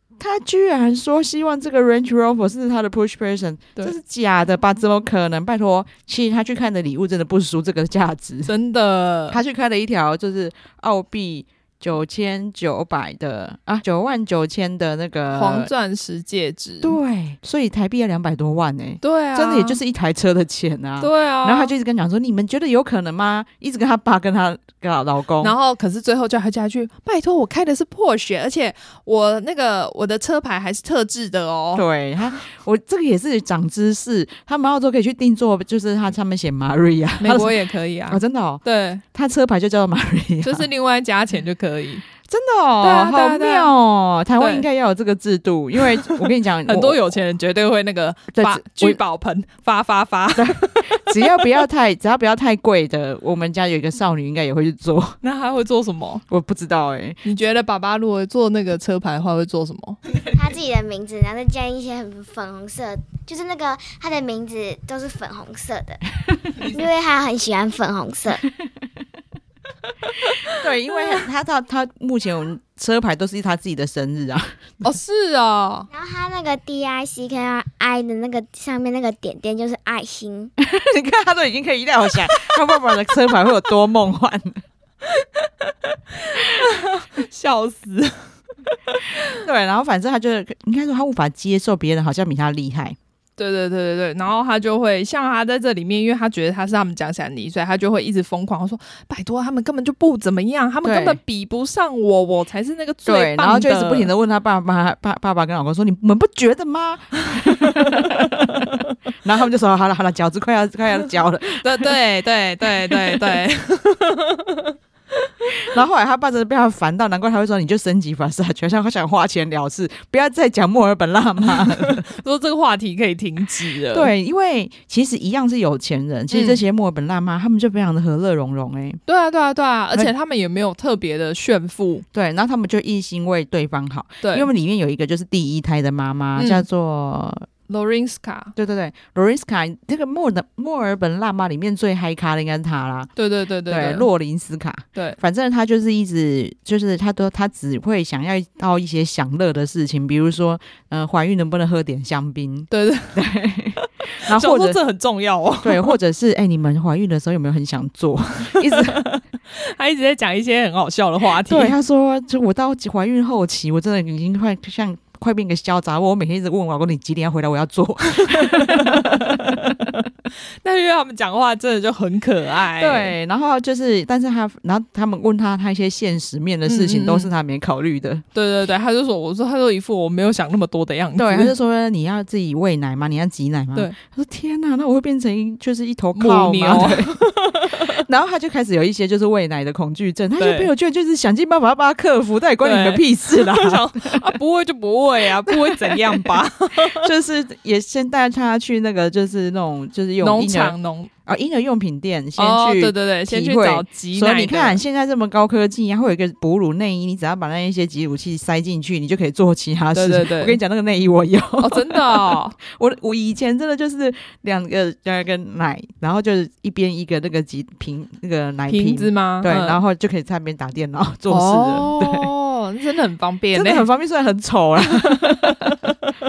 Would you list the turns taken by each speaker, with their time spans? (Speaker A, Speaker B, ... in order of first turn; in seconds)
Speaker A: 0.2-8.5, 9.3-15.7, 16.8-25.5, 31.7-37.5, 38.1-38.6, 39.1-40.7, 42.3-47.0, 48.3-49.0, 50.4-55.2, 56.3-57.2, 70.5-74.8, 80.6-84.6, 89.3-93.0, 100.8-101.2, 103.0-111.9, 112.8-113.4, 115.6-122.0, 123.9-129.0, 132.1-137.5, 138.6-143.1, 143.7-154.8, 155.6-159.0, 161.4-169.9, 172.8-178.2, 181.2-194.3, 195.4-222.3, 223.5-225.8
Speaker B: 8.4-9.4, 15.3-17.0, 19.0-19.8, 21.0-21.7, 25.4-31.8, 37.2-39.0, 40.4-42.0, 42.8-43.7, 44.4-44.6, 45.8-51.4, 55.2-56.2, 57.2-60.0, 74.8-75.9, 85.0-88.3, 88.9-89.3, 93.4-104.1, 107.4-108.9, 111.6-114.7, 115.3-115.6, 121.5-124.1, 126.3-126.6, 129.1-132.0, 134.2-134.5, 136.3-136.6, 137.7-138.5, 143.2-144.1, 152.7-153.2, 154.1-155.9, 158.6-161.7, 168.1-170.1, 170.6-173.1, 176.7-177.3, 178.3-181.5, 186.1-188.0, 190.4-190.7, 192.6-197.1, 200.2-201.1, 202.4-204.8, 209.9-210.6, 211.6-212.6, 218.7-219.8, 221.3-223.9, 224.9-226.1
Speaker C: 60.3-68.5, 75.9-80.5